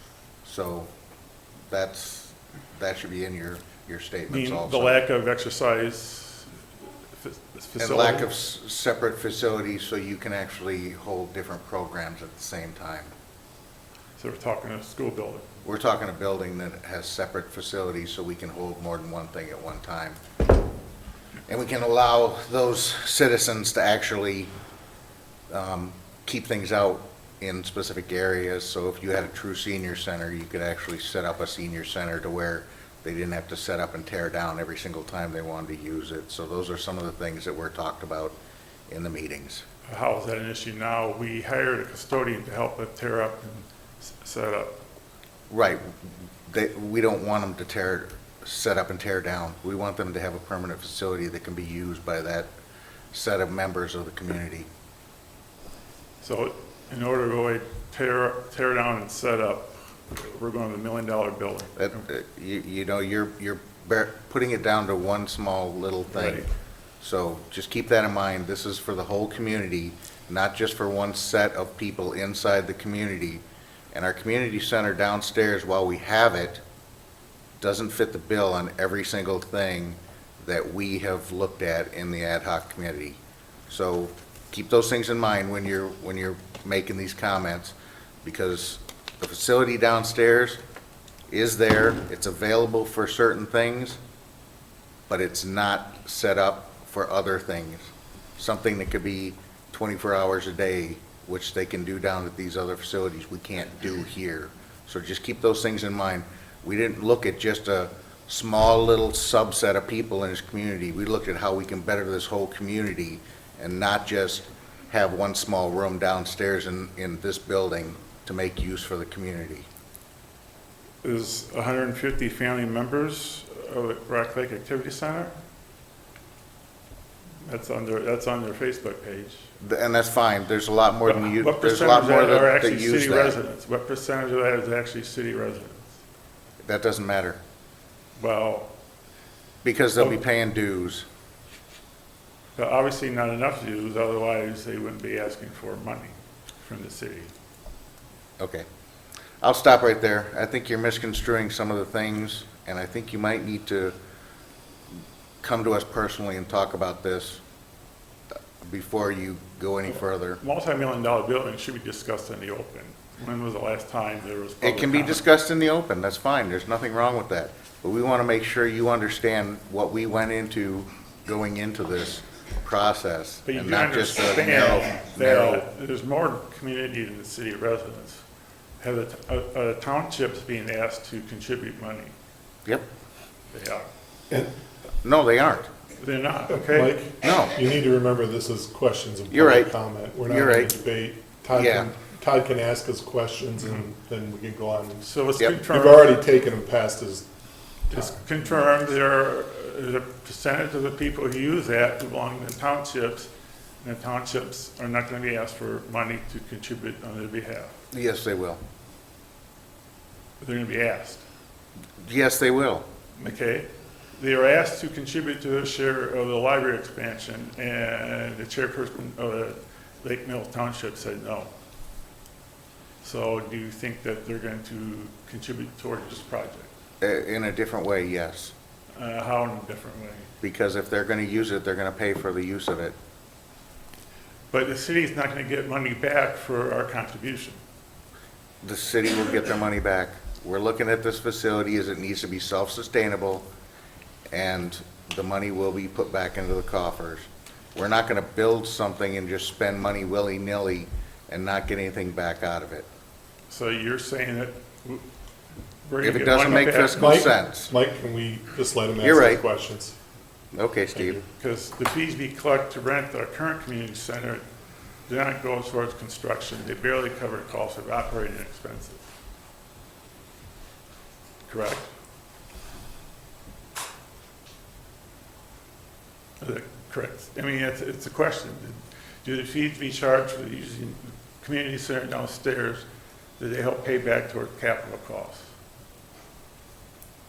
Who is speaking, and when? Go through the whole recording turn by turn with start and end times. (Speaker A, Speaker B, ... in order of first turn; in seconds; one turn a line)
Speaker A: 0.4-0.9
Speaker A: 1.7-5.0
Speaker B: 4.3-6.5
Speaker B: 7.1-8.3
Speaker A: 7.8-13.1
Speaker B: 14.2-15.5
Speaker A: 15.7-20.2
Speaker A: 21.5-24.5
Speaker A: 25.5-38.4
Speaker A: 38.9-39.6
Speaker B: 39.9-44.8
Speaker A: 45.5-52.5
Speaker A: 53.1-54.7
Speaker B: 56.2-62.0
Speaker A: 61.8-66.4
Speaker B: 66.1-66.5
Speaker A: 67.0-76.6
Speaker A: 77.6-90.6
Speaker A: 91.3-94.0
Speaker A: 95.1-119.7
Speaker B: 121.0-125.3
Speaker B: 127.4-129.5
Speaker A: 129.6-133.4
Speaker B: 131.1-135.9
Speaker A: 136.6-137.4
Speaker B: 138.2-138.7
Speaker A: 139.6-141.1
Speaker B: 142.6-147.3
Speaker A: 148.4-148.7
Speaker A: 149.4-153.9
Speaker A: 155.4-157.4
Speaker A: 158.6-160.4
Speaker B: 160.4-165.3
Speaker A: 164.6-175.7
Speaker B: 173.5-178.2
Speaker B: 178.8-182.1
Speaker B: 183.5-183.9
Speaker A: 185.0-185.7
Speaker B: 186.0-187.1
Speaker C: 186.5-195.1
Speaker A: 187.2-187.5
Speaker A: 189.3-189.7
Speaker A: 190.2-190.7
Speaker A: 191.5-191.9
Speaker B: 193.6-193.8
Speaker B: 195.0-196.2
Speaker C: 195.6-197.3
Speaker C: 197.9-198.2
Speaker B: 197.9-203.3
Speaker B: 203.8-207.7
Speaker A: 207.9-208.6
Speaker B: 210.4-211.2
Speaker A: 212.0-212.9
Speaker B: 213.2-221.5
Speaker B: 223.0-226.7
Speaker A: 227.0-228.5
Speaker B: 229.0-230.3
Speaker A: 230.4-233.0
Speaker B: 234.5-237.6
Speaker A: 238.6-243.5
Speaker A: 244.3-252.9
Speaker B: 253.5-255.0
Speaker B: 255.9-257.3
Speaker A: 256.0-257.7
Speaker C: 257.0-260.0
Speaker A: 259.0-259.4
Speaker A: 260.5-261.2
Speaker C: 260.9-261.2
Speaker B: 261.4-264.4
Speaker B: 265.1-269.0
Speaker B: 271.5-271.9
Speaker B: 276.4-282.9
Speaker B: 283.4-285.4